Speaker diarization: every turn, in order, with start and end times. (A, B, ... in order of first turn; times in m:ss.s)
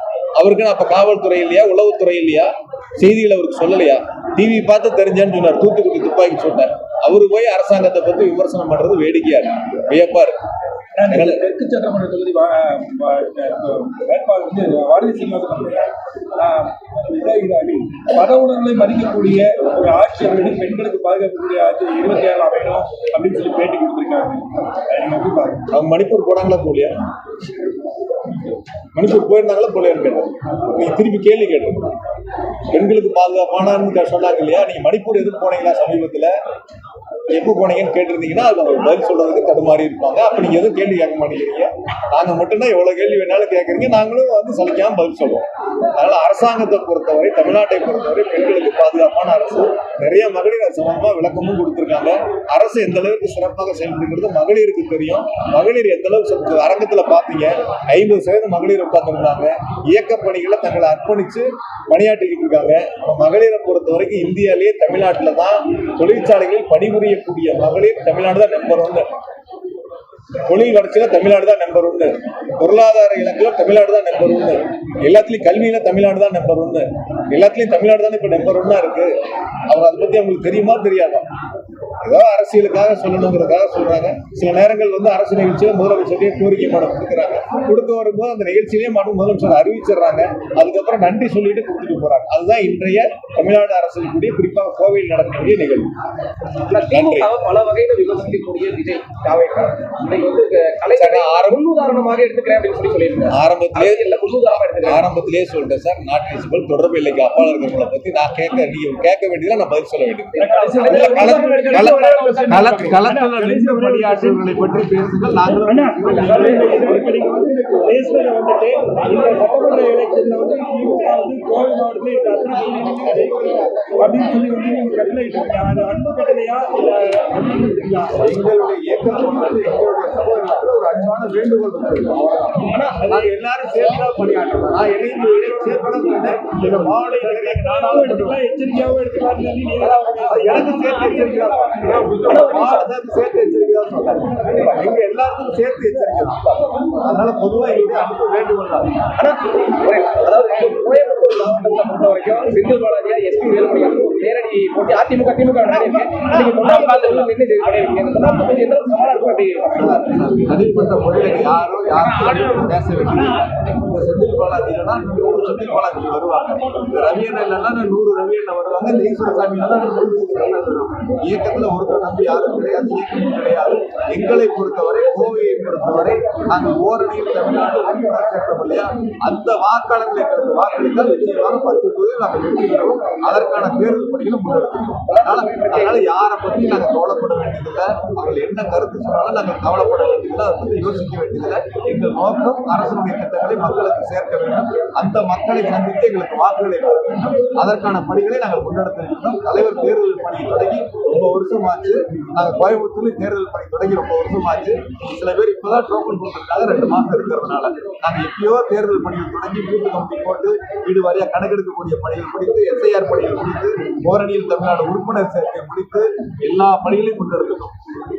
0:00.4-0:10.4 A
0:11.0-0:25.6 B
0:11.1-0:11.4 A
0:25.7-0:26.9 A
0:28.9-0:31.8 A
0:32.7-0:36.3 A
0:37.3-1:09.1 A
1:10.4-1:19.1 A
1:19.7-1:21.2 A
1:22.0-1:35.9 A
1:36.7-1:45.0 C
1:36.8-1:37.3 A
1:41.0-1:41.6 A
1:43.3-1:56.9 A
1:50.4-1:53.0 C
1:50.4-1:54.4 B
1:55.6-2:08.2 B
1:56.3-1:56.8 C
2:08.2-2:18.4 A
2:12.6-2:12.9 C
2:12.8-2:13.2 B
2:15.7-2:22.6 B
2:19.8-2:20.3 C
2:20.2-2:26.4 A
2:22.2-2:22.8 C
2:24.5-2:24.8 C
2:27.0-2:28.9 A
2:29.2-2:39.7 C
2:39.8-3:37.7 A
3:05.1-3:06.0 C